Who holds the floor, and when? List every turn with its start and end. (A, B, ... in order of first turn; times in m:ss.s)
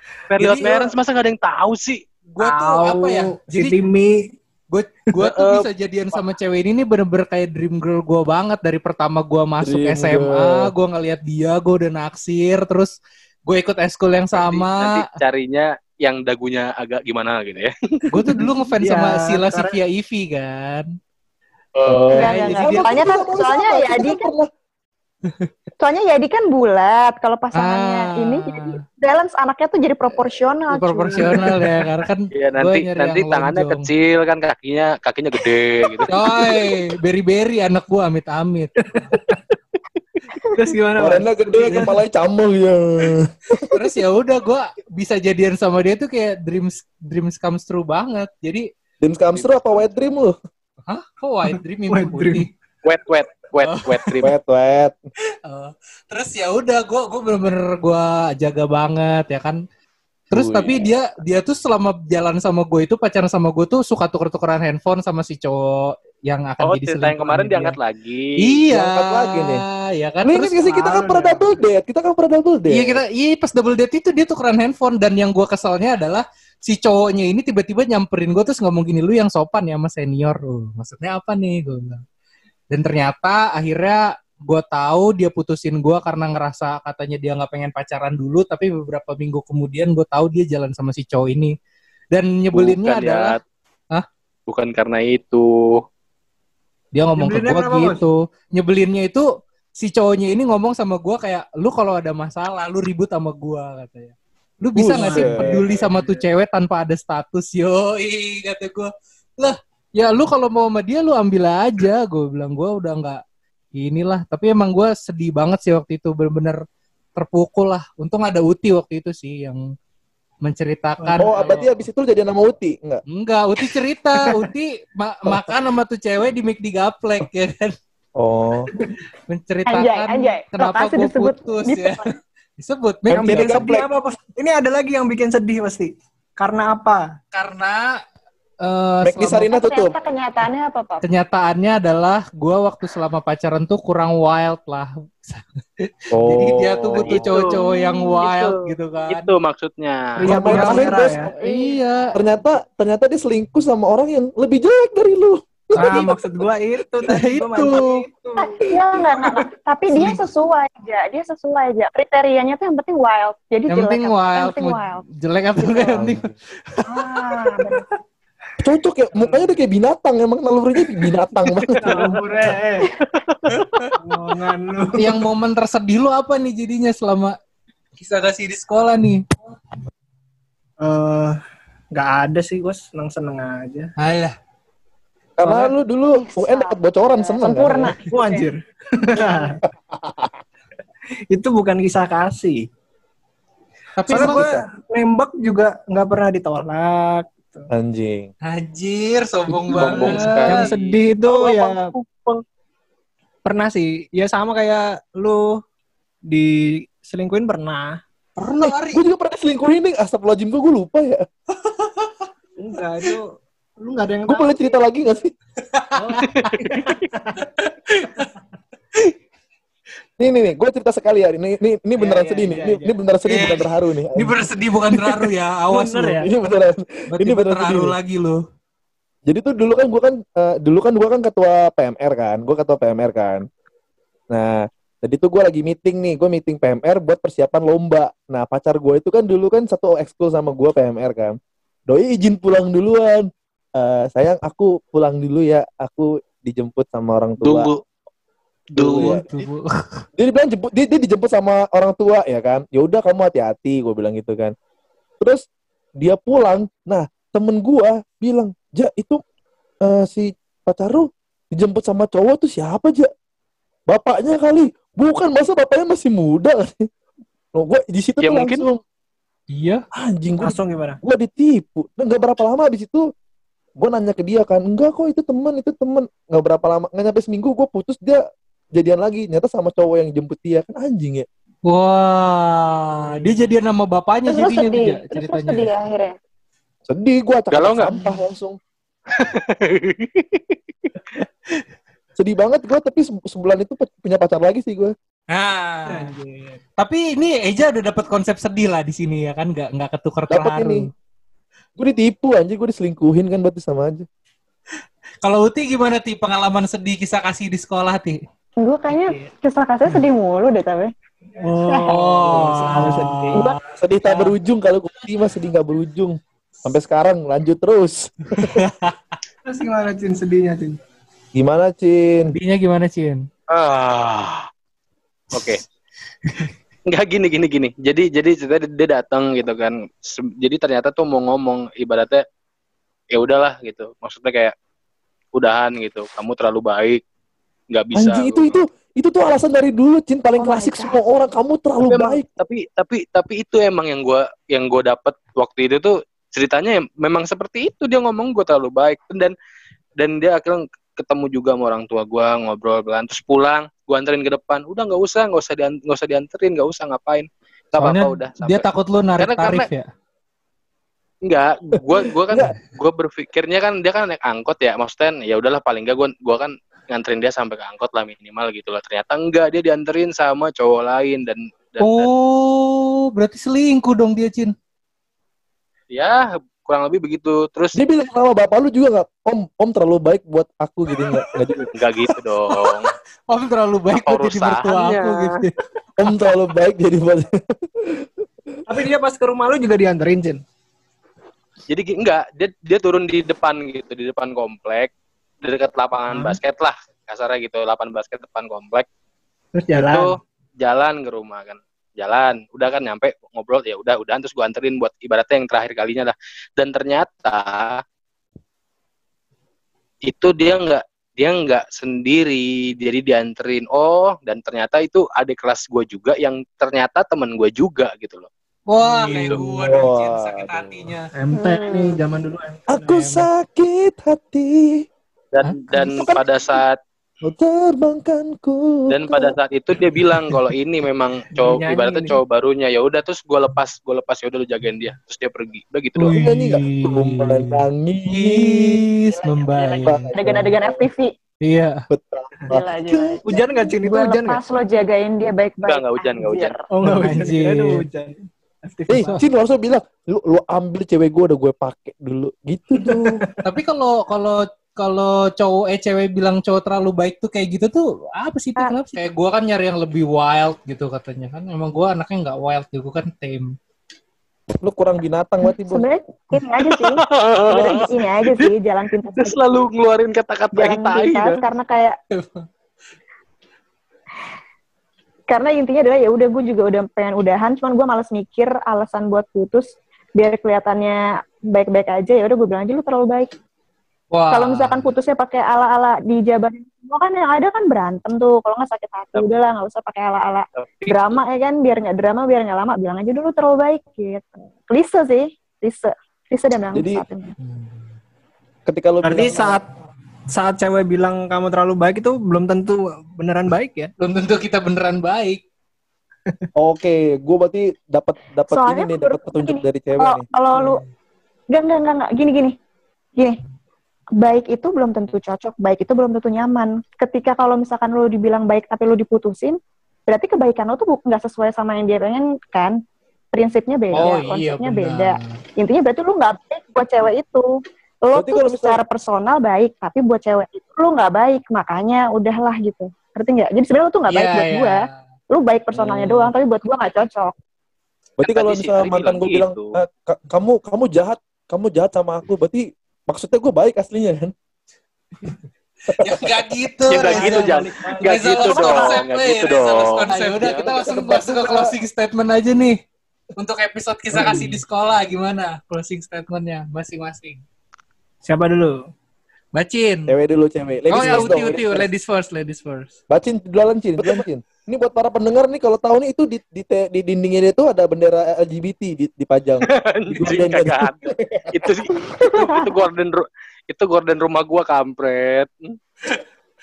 0:00.3-0:02.1 A
0:00.4-0:00.9 B
0:02.4-0:03.8 B
0:02.4-0:04.3 C
0:04.7-0:12.9 B
0:05.2-0:06.2 A
0:09.6-0:10.7 D
0:13.5-0:15.1 B
0:14.3-0:18.1 A
0:18.1-0:21.0 B
0:18.2-0:19.8 C
0:21.8-0:22.2 A
0:21.9-0:24.5 D
0:22.1-0:23.1 B
0:22.2-0:24.3 E
0:25.8-0:31.4 E
0:27.6-0:28.8 B
0:30.7-0:33.9 B
0:31.2-0:31.7 C
0:32.3-0:36.3 A
0:36.0-0:36.6 C
0:36.1-0:39.1 B
0:38.8-0:39.4 C
0:40.5-0:42.0 C
0:41.0-0:43.7 D
0:43.7-0:48.7 B
0:49.0-0:50.4 D
0:49.3-0:50.0 A
0:50.9-0:52.5 B
0:51.9-0:52.5 C
0:52.8-0:54.3 A
0:53.6-0:54.2 B
0:54.2-0:55.0 D
0:55.5-0:59.6 B
1:00.3-1:07.8 B
1:00.3-1:00.7 D
1:06.6-1:08.6 A
1:08.4-1:10.7 B
1:08.7-1:09.6 D
1:10.2-1:13.0 D
1:10.6-1:11.6 C
1:12.7-1:22.0 B
1:22.7-1:31.5 B
1:32.1-1:33.4 B
1:32.5-1:33.4 A
1:34.5-1:35.8 A
1:36.9-1:53.2 B
1:37.2-1:38.0 C
1:44.8-1:45.6 D
1:44.9-1:46.2 C
1:53.8-1:56.6 B
1:57.2-1:59.6 B
2:00.4-2:01.7 B
2:01.0-2:01.6 C
2:01.2-2:03.0 D
2:03.1-2:07.8 B
2:04.2-2:04.5 C
2:05.3-2:05.5 D
2:08.2-2:08.7 D
2:09.3-2:13.6 B
2:09.7-2:12.1 E
2:13.1-2:13.9 D
2:13.1-2:17.1 C
2:17.3-2:17.9 B
2:18.6-2:19.5 B
2:19.0-2:19.9 D
2:19.5-2:21.0 E
2:21.0-2:29.3 B
2:26.1-2:27.3 D
2:27.0-2:27.6 A
2:27.5-2:28.2 E
2:28.2-2:28.5 A
2:29.1-2:30.8 A
2:30.2-2:31.3 C
2:30.2-2:32.1 B
2:30.2-2:36.0 D
2:31.4-2:31.8 E
2:35.7-2:38.6 C
2:35.8-2:36.2 B
2:37.0-2:38.0 B
2:38.4-2:45.0 E
2:43.7-2:46.8 B
2:45.6-2:46.0 E
2:45.9-2:46.3 D
2:46.9-2:47.9 E
2:48.6-2:52.1 D
2:51.7-2:52.2 A
2:51.8-2:52.9 C
2:53.2-2:53.6 A
2:53.6-2:53.9 B
2:54.0-2:55.2 C
2:54.9-2:57.4 B
2:58.0-2:59.2 B
3:00.8-3:01.4 C
3:01.9-3:03.9 C
3:04.0-3:04.3 B
3:05.4-3:07.9 D
3:05.4-3:05.7 C
3:06.1-3:08.4 E
3:08.1-3:09.6 C
3:09.9-3:10.4 D
3:11.3-3:12.6 C
3:14.0-3:14.4 B
3:14.1-3:17.7 C
3:14.1-3:14.6 D
3:17.7-3:18.3 D
3:18.4-3:20.7 B
3:19.7-3:22.4 A
3:19.7-3:20.6 D
3:19.8-3:22.0 C
3:23.4-3:25.6 C
3:26.3-3:28.0 C
3:28.4-3:29.0 B
3:28.6-3:31.2 D
3:31.6-3:32.3 B
3:32.6-3:34.5 C
3:34.3-3:35.3 D
3:35.7-3:36.6 B
3:36.0-3:36.3 C
3:36.4-3:37.0 A
3:36.8-3:37.4 C
3:37.6-3:38.3 B
3:40.2-3:45.3 D
3:42.0-3:42.9 C
3:43.2-3:46.3 B
3:45.7-3:46.3 C
3:46.2-3:48.0 D
3:47.1-3:48.4 B
3:49.3-3:53.4 D
3:54.3-4:01.4 D
4:01.9-4:07.7 D
4:07.4-4:07.8 A
4:08.7-4:09.2 D
4:08.8-4:09.2 A
4:08.9-4:10.0 B
4:10.2-4:14.5 D
4:16.0-4:19.2 D
4:19.8-4:23.1 D
4:23.9-4:26.9 D
4:27.6-4:28.8 D
4:28.2-4:28.6 A
4:29.5-4:29.8 B
4:30.0-4:33.0 D
4:30.4-4:31.0 C
4:33.8-4:38.2 D
4:38.8-4:41.3 D
4:41.7-4:45.7 B
4:44.3-4:46.2 E
4:46.9-4:48.6 D
4:47.5-4:48.0 A
4:49.1-4:51.0 A
4:52.2-4:54.9 D
4:55.3-4:56.2 B
4:55.9-4:56.6 C
4:56.8-5:00.9 B
5:00.3-5:00.9 D
5:01.8-5:04.1 D
5:05.2-5:08.2 B
5:08.6-5:10.9 E
5:08.9-5:09.3 C
5:11.4-5:13.4 C
5:11.7-5:12.0 E
5:11.9-5:13.5 B
5:12.2-5:13.2 D
5:13.8-5:18.6 D
5:18.4-5:19.0 B
5:19.4-5:20.8 C
5:21.4-5:22.3 D
5:22.3-5:23.2 B
5:23.5-5:24.5 A
5:25.3-5:25.6 A
5:26.2-5:26.5 B
5:26.9-5:32.2 A
5:33.1-5:34.5 A
5:35.4-5:37.0 A
5:37.7-5:38.6 A
5:38.0-5:42.3 D
5:40.4-5:41.0 E
5:41.8-5:49.3 A
5:50.0-5:58.7 A
5:57.8-5:59.9 B
5:59.2-5:59.7 A
6:01.2-6:12.1 A
6:02.3-6:02.5 D
6:11.8-6:14.5 B
6:15.9-6:17.8 A
6:17.8-6:21.8 D
6:21.7-6:22.9 A
6:23.3-6:25.6 B
6:23.9-6:25.4 A
6:26.0-6:28.2 D
6:28.7-6:30.4 C
6:31.7-6:38.9 A
6:39.6-6:40.2 C
6:39.8-6:47.8 A
6:50.1-6:58.3 A
6:58.7-7:01.1 B
6:59.1-6:59.4 A
6:59.1-7:00.9 D
7:01.2-7:03.1 C
7:01.4-7:02.0 E
7:02.7-7:04.9 D
7:05.3-7:06.8 A
7:05.4-7:06.1 B
7:05.9-7:06.2 D
7:07.2-7:09.3 D
7:08.9-7:16.2 A
7:11.4-7:12.2 C
7:16.0-7:20.5 B
7:16.1-7:18.9 D
7:19.8-7:20.2 D
7:20.1-7:21.1 E
7:21.4-7:21.8 B
7:21.9-7:23.2 D
7:22.5-7:26.6 E
7:23.3-7:24.4 C
7:25.7-7:26.5 A
7:26.7-7:29.2 C
7:26.8-7:27.9 B
7:28.9-7:33.2 D
7:32.8-7:33.4 C
7:33.4-7:43.5 B
7:38.6-7:39.0 E
7:44.6-7:45.8 D
7:45.7-7:49.4 E
7:46.7-7:48.5 A
7:49.2-7:51.4 A
7:50.5-7:52.0 E
7:52.2-7:52.5 B
7:55.3-8:03.3 E
8:04.1-8:04.9 B
8:04.3-8:17.4 E
8:10.6-8:11.2 A
8:16.7-8:17.0 D
8:18.7-8:19.6 D
8:19.0-8:19.7 C
8:20.3-8:23.9 C
8:24.0-8:25.4 B
8:26.6-8:30.2 D
8:28.5-8:30.8 E
8:31.5-8:32.6 E
8:34.2-8:42.8 E
8:43.3-8:47.5 E
8:43.9-8:45.4 B
8:48.0-8:57.3 E
8:48.1-8:48.8 D
8:54.1-8:55.0 B
8:58.2-9:04.3 D
8:58.2-8:59.7 A
9:05.9-9:06.4 D
9:06.0-9:12.8 B
9:06.9-9:10.7 A
9:07.0-9:08.0 C
9:08.5-9:08.9 E
9:10.6-9:11.7 D
9:13.4-9:17.4 B
9:14.1-9:14.5 D
9:18.2-9:18.9 C
9:19.5-9:20.2 B
9:20.1-9:21.9 D
9:20.9-9:22.9 B
9:23.1-9:31.7 D
9:29.7-9:35.8 A
9:32.0-9:32.6 E